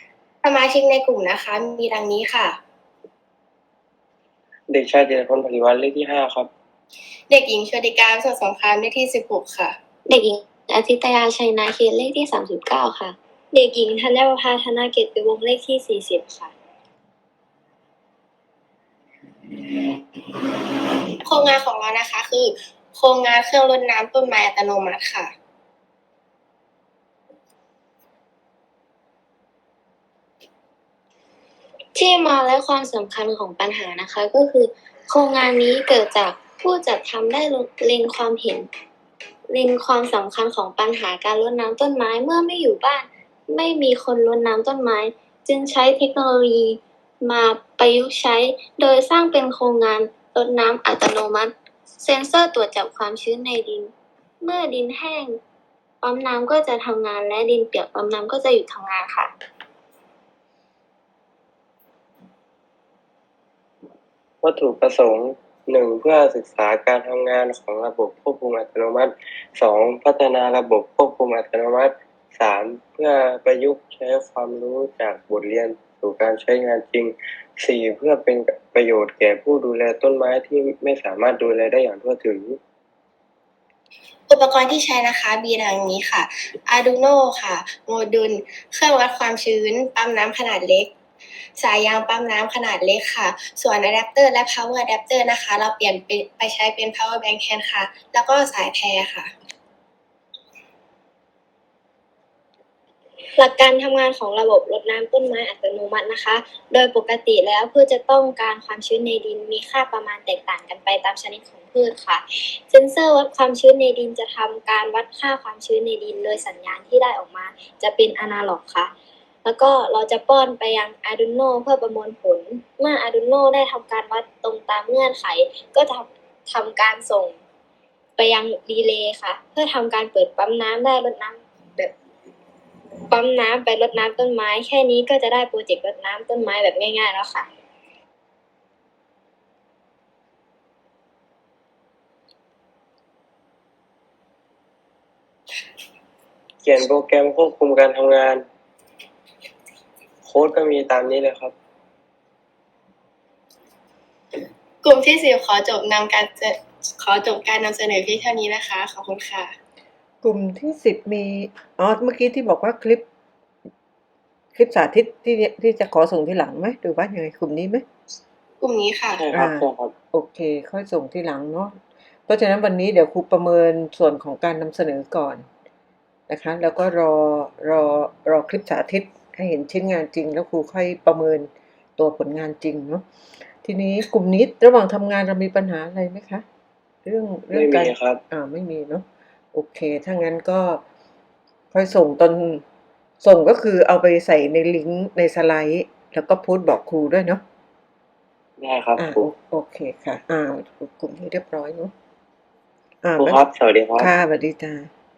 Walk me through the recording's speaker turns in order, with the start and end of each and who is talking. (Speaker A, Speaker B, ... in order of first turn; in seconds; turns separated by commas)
Speaker A: 0.4-2.6, Speaker B: 4.7-6.5, Speaker A: 7.3-9.8, Speaker C: 10.1-13.2, Speaker D: 13.5-16.5, Speaker A: 21.2-25.3, Speaker C: 31.9-38.7, Speaker C: 39.5-55.4, Speaker C: 56.0-59.3, Speaker B: 64.4-82.6, Speaker A: 84.3-90.9, Speaker A: 91.6-99.3, Speaker D: 103.4-118.9, Speaker D: 119.4-127.4, Speaker D: 128.2-131.9, Speaker D: 133.1-137.5, Speaker B: 146.6-148.4, Speaker B: 150.2-151.5, Speaker A: 154.8-159.5, Speaker E: 160.2-163.0, Speaker E: 164.5-167.8, Speaker A: 168.6-169.2, Speaker B: 169.1-169.9, Speaker E: 169.3-171.8, Speaker E: 172.3-175.4, Speaker E: 176.3-183.0, Speaker E: 183.6-186.4, Speaker E: 187.1-190.8, Speaker B: 187.5-188.2, Speaker E: 191.7-192.6, Speaker E: 193.2-197.4, Speaker B: 198.6-199.2, Speaker E: 199.0-201.9, Speaker E: 203.0-203.4, Speaker B: 203.2-204.1, Speaker E: 204.0-204.9